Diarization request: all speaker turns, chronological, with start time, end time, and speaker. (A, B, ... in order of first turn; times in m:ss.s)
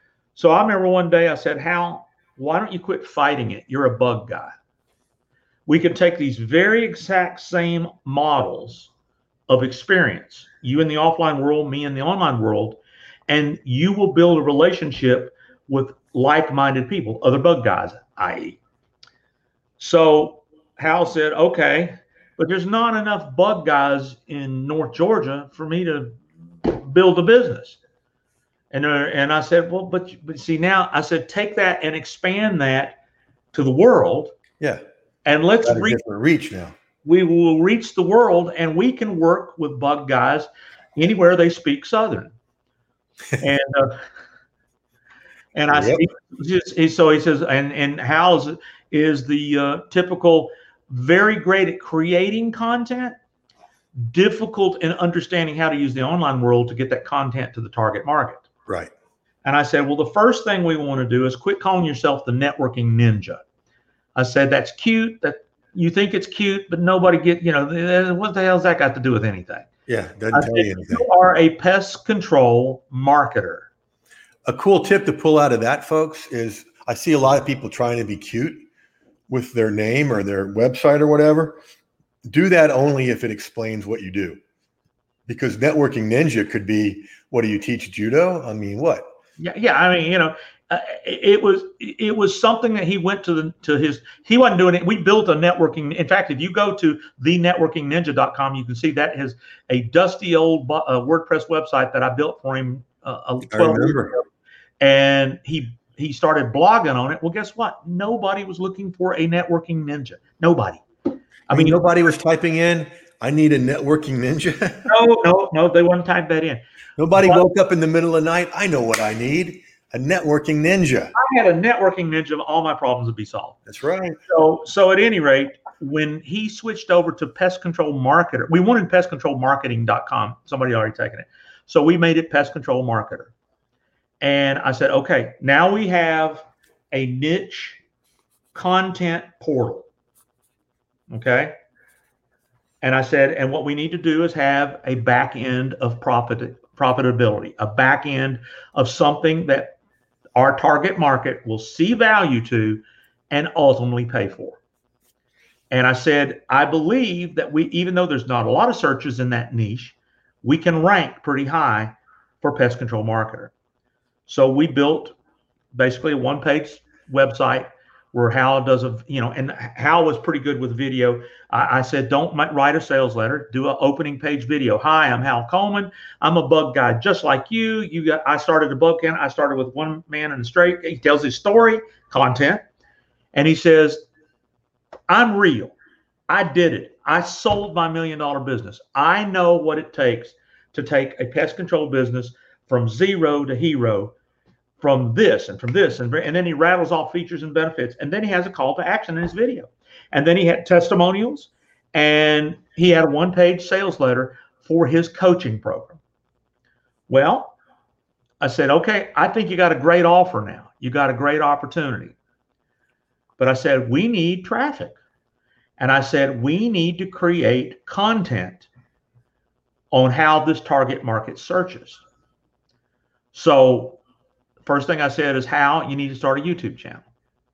0:00.4-0:04.5 A
0:05.7-0:08.9 A
0:09.5-0:18.6 A
0:19.8-0:27.8 A
0:28.7-0:33.0 A
0:33.5-0:34.3 A
0:35.2-0:36.0 A
0:35.6-0:36.7 B
0:37.0-0:42.3 A
0:43.4-0:44.0 A
0:45.6-0:53.2 A
0:45.7-0:46.0 B
0:54.0-0:58.5 A
0:59.4-1:03.4 A
1:04.2-1:09.7 A
1:09.9-1:11.0 B
1:10.3-1:13.7 A
1:14.4-1:18.6 B
1:19.3-1:21.6 B
1:22.3-1:24.4 B
1:25.3-1:29.0 B
1:29.4-1:44.2 A
1:43.5-1:44.1 B
1:44.8-1:50.8 A
1:51.5-1:51.8 A
1:51.5-1:54.9 B
1:54.9-1:56.6 A
1:57.0-2:01.1 B
1:57.2-1:57.4 A
2:01.2-2:03.6 A
2:03.7-2:04.2 B
2:04.3-2:13.3 A
2:14.2-2:17.8 A
2:18.5-2:19.9 A
2:21.1-2:21.6 A
2:22.8-2:29.8 A
2:30.4-2:34.6 A
2:35.7-2:43.5 A
2:44.3-2:45.2 A
2:45.7-3:02.6 A
3:03.3-3:04.1 A
3:05.1-3:05.8 A
3:06.3-3:14.1 A
3:14.8-3:26.0 A
3:27.1-3:27.6 A
3:28.4-3:32.2 A
3:33.4-3:35.0 A
3:35.8-3:38.7 A
3:39.9-3:42.0 A
3:43.3-3:44.0 A
3:44.7-3:47.1 A